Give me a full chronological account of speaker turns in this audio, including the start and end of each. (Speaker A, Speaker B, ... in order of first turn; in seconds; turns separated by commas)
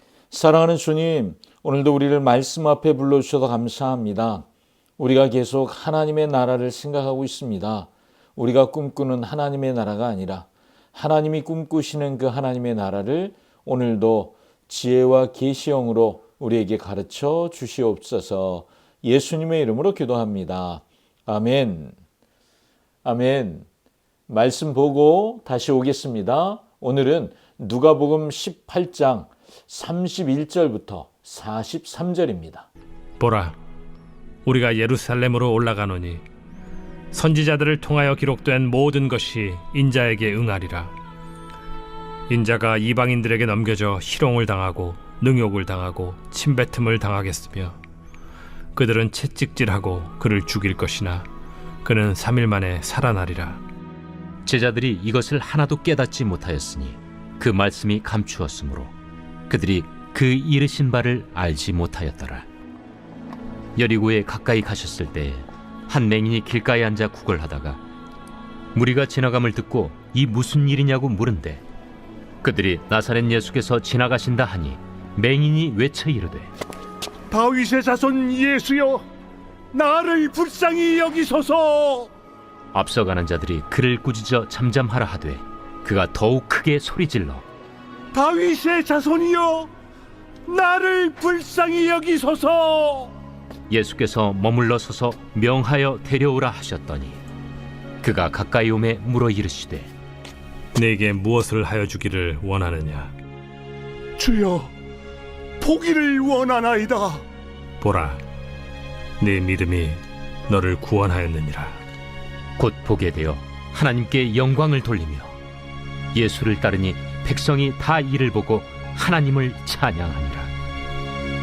Speaker A: 0.3-4.5, Speaker A: 5.0-21.9, Speaker A: 23.0-23.7, Speaker A: 24.3-32.7, Speaker B: 33.2-33.6, Speaker B: 34.5-36.2, Speaker B: 37.1-40.9, Speaker B: 42.3-47.8, Speaker B: 48.8-51.3, Speaker B: 51.8-53.6, Speaker C: 54.5-58.9, Speaker C: 59.5-62.5, Speaker C: 63.8-67.8, Speaker C: 68.8-71.6, Speaker C: 72.4-76.5, Speaker D: 77.3-79.1, Speaker D: 79.7-82.1, Speaker C: 82.7-87.4, Speaker D: 88.1-89.7, Speaker D: 90.5-93.1, Speaker C: 93.7-97.2, Speaker C: 98.0-99.9, Speaker B: 100.8-103.1, Speaker D: 104.2-104.7, Speaker D: 105.6-107.2, Speaker B: 107.8-108.2, Speaker B: 109.2-111.8, Speaker C: 112.6-115.3, Speaker C: 116.1-120.5